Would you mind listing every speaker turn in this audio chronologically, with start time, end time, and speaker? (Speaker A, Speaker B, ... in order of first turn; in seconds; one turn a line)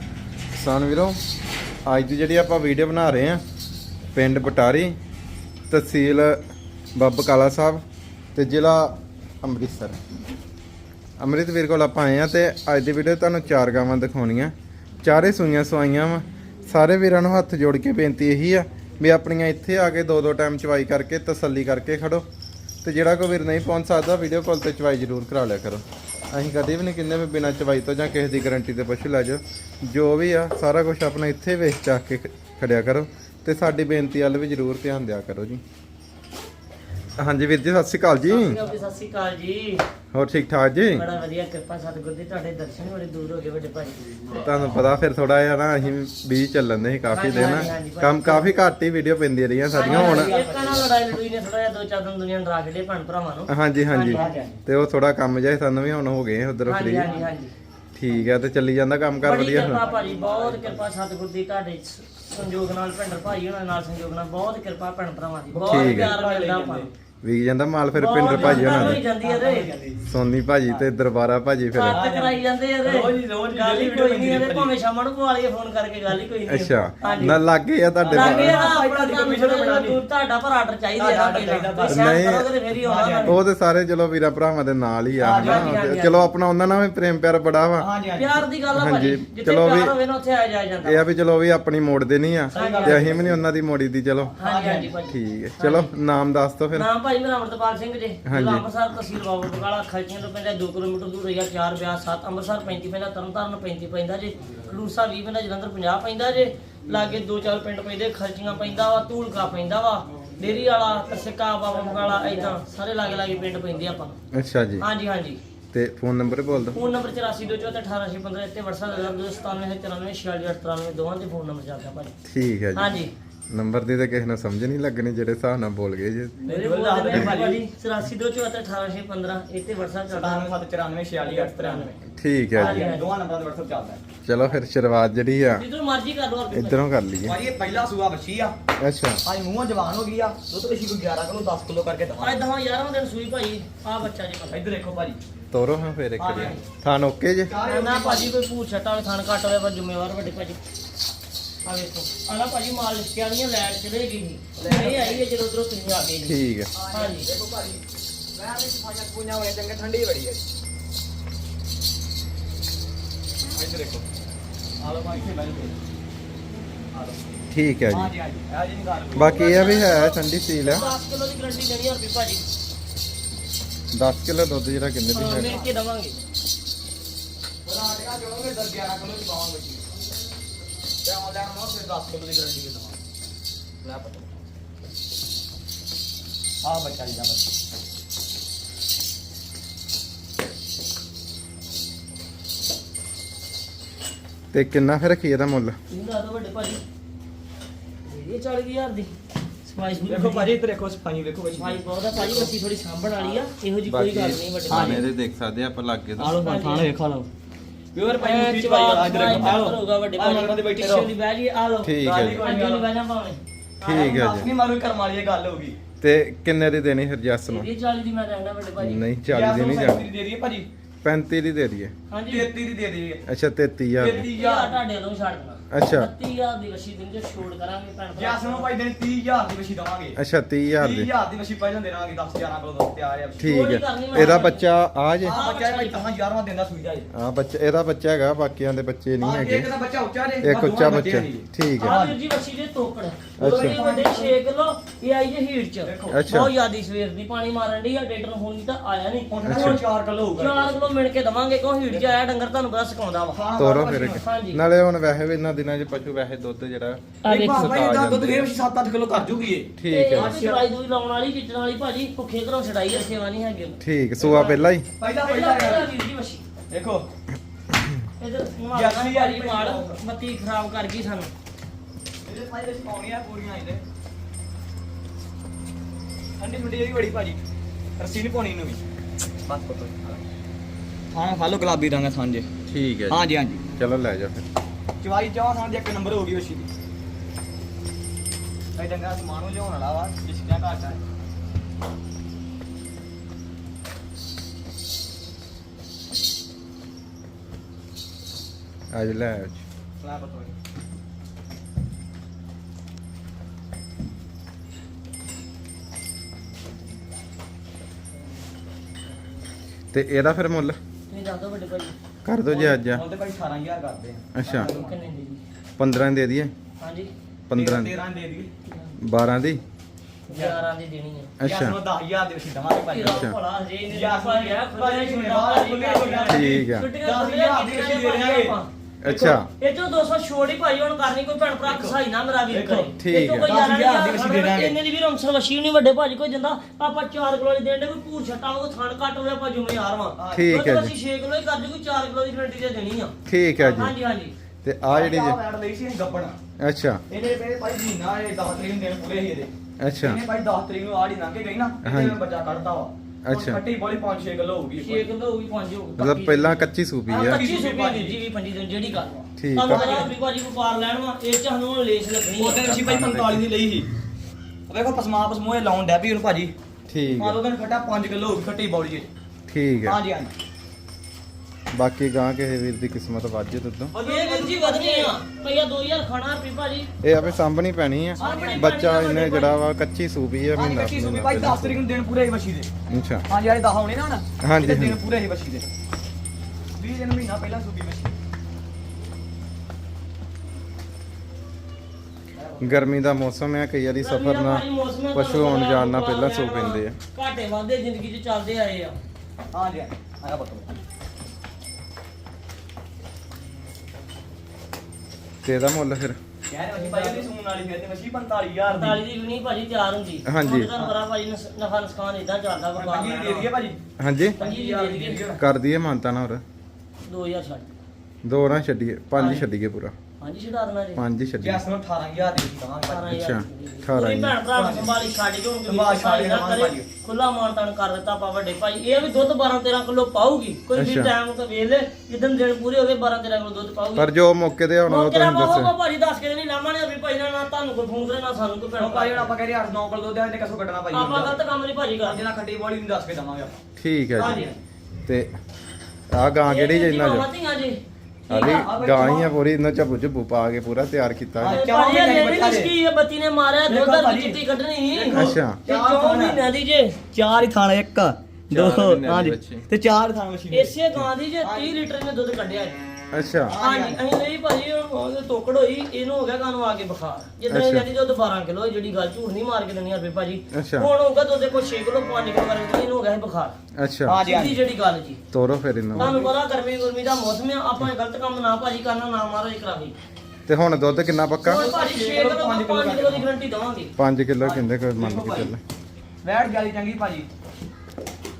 Speaker A: 0.5-1.2
Speaker A: 1.9-3.4
Speaker A: 4.1-4.9
Speaker A: 5.7-6.3
Speaker A: 7.0-7.8
Speaker A: 8.3-10.0
Speaker A: 11.2-22.2
Speaker A: 22.8-35.6
Speaker A: 37.2-38.6
Speaker B: 38.2-39.8
Speaker A: 40.1-41.0
Speaker B: 40.9-44.0
Speaker A: 44.3-50.3
Speaker B: 47.1-48.6
Speaker B: 49.7-54.5
Speaker C: 49.8-50.9
Speaker A: 53.5-57.1
Speaker C: 54.1-54.5
Speaker B: 56.6-57.5
Speaker A: 57.9-59.8
Speaker B: 59.2-66.9
Speaker C: 59.6-60.8
Speaker C: 65.5-66.9
Speaker A: 65.7-66.1
Speaker A: 67.2-69.0
Speaker B: 67.9-69.7
Speaker C: 68.2-70.0
Speaker A: 70.1-72.0
Speaker B: 71.7-77.4
Speaker C: 71.9-74.7
Speaker A: 76.5-78.6
Speaker C: 77.0-77.4
Speaker C: 78.0-80.0
Speaker B: 78.1-83.4
Speaker C: 81.0-82.1
Speaker A: 81.9-82.5
Speaker C: 82.8-83.3
Speaker A: 83.2-87.9
Speaker C: 85.2-85.7
Speaker B: 85.4-86.3
Speaker C: 87.8-88.4
Speaker B: 88.1-91.0
Speaker A: 88.7-89.9
Speaker A: 90.8-94.3
Speaker B: 92.5-93.2
Speaker C: 92.5-93.4
Speaker C: 94.4-94.9
Speaker B: 94.4-95.9
Speaker A: 95.1-96.8
Speaker B: 96.7-114.2
Speaker A: 98.2-98.7
Speaker A: 114.3-114.8
Speaker B: 114.8-115.4
Speaker A: 115.7-116.8
Speaker B: 116.7-122.1
Speaker A: 122.2-126.4
Speaker B: 122.7-123.1
Speaker C: 126.4-127.6
Speaker B: 126.4-130.4
Speaker C: 130.1-132.0
Speaker B: 131.2-131.9
Speaker A: 132.1-132.9
Speaker C: 132.5-134.0
Speaker B: 132.5-133.1
Speaker A: 134.2-135.6
Speaker B: 135.5-136.8
Speaker A: 136.5-137.3
Speaker C: 137.2-138.5
Speaker A: 138.8-139.2
Speaker C: 139.2-142.4
Speaker B: 142.2-144.6
Speaker C: 144.5-145.2
Speaker A: 145.5-147.5
Speaker C: 146.2-146.6
Speaker C: 147.4-148.3
Speaker B: 147.6-150.6
Speaker B: 151.6-156.4
Speaker C: 154.6-155.2
Speaker A: 156.2-156.7
Speaker C: 156.7-157.8
Speaker B: 156.9-157.3
Speaker C: 158.3-160.4
Speaker C: 163.5-164.1
Speaker C: 164.8-165.8
Speaker C: 166.9-169.4
Speaker A: 167.5-168.1
Speaker A: 169.1-170.9
Speaker B: 169.2-172.4
Speaker A: 173.9-175.6
Speaker B: 175.1-176.2
Speaker C: 175.2-175.7
Speaker C: 177.6-179.8
Speaker C: 181.0-183.0
Speaker C: 183.8-184.5
Speaker C: 186.6-187.4
Speaker A: 194.5-195.8
Speaker B: 195.9-196.8
Speaker B: 198.1-199.1
Speaker B: 199.6-200.6
Speaker C: 200.1-202.5
Speaker B: 201.6-205.1
Speaker A: 203.9-206.3
Speaker C: 204.7-205.0
Speaker C: 206.2-207.3
Speaker B: 206.3-206.9
Speaker C: 207.9-211.1
Speaker B: 208.2-214.2
Speaker A: 211.8-212.5
Speaker C: 212.0-212.9
Speaker A: 213.8-214.5
Speaker C: 213.8-215.8
Speaker A: 216.0-217.7
Speaker B: 217.5-219.0
Speaker A: 218.8-220.1
Speaker C: 219.3-220.7
Speaker A: 221.0-221.9
Speaker B: 222.1-222.5
Speaker C: 222.3-223.2
Speaker A: 223.2-224.3
Speaker C: 224.0-224.8
Speaker B: 224.3-228.7
Speaker A: 225.7-226.1
Speaker C: 228.2-230.2
Speaker A: 230.2-231.1
Speaker C: 230.8-233.5
Speaker A: 233.4-235.3
Speaker B: 233.4-234.7
Speaker C: 234.1-234.4
Speaker C: 235.2-237.1
Speaker B: 235.3-236.0
Speaker A: 237.1-239.7
Speaker C: 239.2-242.2
Speaker A: 240.4-242.0
Speaker B: 241.8-249.8
Speaker A: 243.4-243.8
Speaker C: 243.4-244.3
Speaker C: 245.8-246.2
Speaker A: 246.1-246.5
Speaker C: 249.3-250.9
Speaker A: 249.4-249.8
Speaker B: 250.4-253.4
Speaker C: 253.3-254.2
Speaker A: 253.6-258.5
Speaker B: 254.1-254.6
Speaker B: 257.2-257.8
Speaker C: 257.2-260.6
Speaker A: 259.8-260.4
Speaker B: 259.9-263.8
Speaker A: 263.8-264.9
Speaker C: 264.2-265.9
Speaker B: 265.2-266.4
Speaker C: 266.7-267.1
Speaker B: 268.2-271.3
Speaker C: 268.7-270.0
Speaker C: 272.2-273.8
Speaker C: 276.4-277.4
Speaker C: 278.0-278.8
Speaker C: 279.4-280.2
Speaker C: 281.1-282.5
Speaker A: 282.7-284.4
Speaker C: 283.1-283.6
Speaker C: 285.0-286.7
Speaker C: 288.8-291.0
Speaker A: 298.9-299.6
Speaker C: 300.0-300.5
Speaker A: 309.9-310.8
Speaker B: 311.1-311.9
Speaker A: 312.2-313.0
Speaker C: 312.5-315.0
Speaker A: 314.3-314.7
Speaker B: 314.5-315.4
Speaker A: 315.8-316.5
Speaker B: 316.8-317.1
Speaker A: 317.5-317.9
Speaker C: 317.5-318.5
Speaker B: 318.7-318.9
Speaker A: 319.0-319.6
Speaker B: 320.3-321.3
Speaker C: 320.3-320.6
Speaker A: 321.4-321.8
Speaker C: 321.4-323.3
Speaker B: 322.8-328.7
Speaker A: 323.0-323.4
Speaker C: 323.9-329.4
Speaker A: 326.3-326.9
Speaker A: 329.0-329.5
Speaker B: 329.6-344.3
Speaker C: 331.6-332.0
Speaker C: 332.5-334.8
Speaker A: 333.0-333.5
Speaker C: 340.2-340.5
Speaker A: 340.3-340.9
Speaker A: 343.2-343.9
Speaker A: 344.6-345.4
Speaker C: 344.9-346.3
Speaker A: 346.6-347.0
Speaker C: 347.1-355.1
Speaker A: 349.8-350.2
Speaker A: 351.8-352.2
Speaker A: 353.2-353.6
Speaker B: 354.8-362.7
Speaker A: 356.0-357.4
Speaker C: 357.1-358.2
Speaker A: 359.4-359.8
Speaker C: 359.6-360.1
Speaker C: 362.4-363.9
Speaker A: 362.7-363.4
Speaker C: 364.7-366.5
Speaker A: 366.9-367.4
Speaker C: 367.2-369.1
Speaker A: 369.5-370.0
Speaker C: 369.8-370.3
Speaker A: 371.7-373.9
Speaker C: 373.9-375.1
Speaker B: 374.0-376.9
Speaker A: 377.0-381.8
Speaker C: 378.2-378.8
Speaker B: 378.2-379.6
Speaker C: 380.5-382.7
Speaker A: 382.9-383.2
Speaker C: 383.3-385.6
Speaker A: 384.4-385.0
Speaker C: 386.8-388.1
Speaker C: 392.3-392.9
Speaker A: 392.6-396.9
Speaker B: 394.0-399.0
Speaker C: 399.5-400.7
Speaker A: 405.4-406.2
Speaker C: 406.5-409.0
Speaker B: 406.8-407.2
Speaker B: 408.7-413.5
Speaker A: 410.3-410.7
Speaker C: 412.7-413.8
Speaker A: 414.0-414.4
Speaker C: 414.4-415.4
Speaker B: 414.4-415.2
Speaker A: 415.4-416.4
Speaker B: 417.0-417.7
Speaker A: 418.2-419.9
Speaker B: 420.2-421.0
Speaker A: 420.9-421.6
Speaker C: 421.4-423.2
Speaker B: 422.9-434.1
Speaker A: 423.1-424.4
Speaker C: 424.5-424.9
Speaker C: 425.7-426.9
Speaker A: 430.7-431.1
Speaker A: 433.9-435.7
Speaker B: 434.9-439.3
Speaker C: 438.8-441.4
Speaker B: 440.9-442.2
Speaker C: 442.0-443.6
Speaker A: 443.8-444.4
Speaker C: 444.2-444.6
Speaker B: 444.2-444.5
Speaker A: 445.1-445.3
Speaker A: 446.1-447.3
Speaker B: 446.4-447.8
Speaker A: 448.3-451.6
Speaker C: 448.3-449.3
Speaker C: 451.4-452.7
Speaker B: 451.4-457.0
Speaker C: 453.7-454.4
Speaker C: 454.9-456.4
Speaker A: 455.1-455.6
Speaker C: 457.1-460.7
Speaker A: 458.5-459.7
Speaker B: 460.5-462.8
Speaker C: 461.4-461.7
Speaker A: 463.1-463.5
Speaker C: 463.5-464.0
Speaker B: 463.6-473.6
Speaker A: 467.5-467.9
Speaker A: 470.5-470.9
Speaker A: 473.8-474.2
Speaker C: 474.1-474.6
Speaker B: 474.2-475.2
Speaker A: 475.3-476.2
Speaker C: 475.9-476.3
Speaker B: 476.0-479.9
Speaker A: 480.5-481.7
Speaker B: 481.4-483.9
Speaker C: 481.5-483.3
Speaker A: 484.0-485.6
Speaker C: 484.4-485.5
Speaker C: 486.2-487.3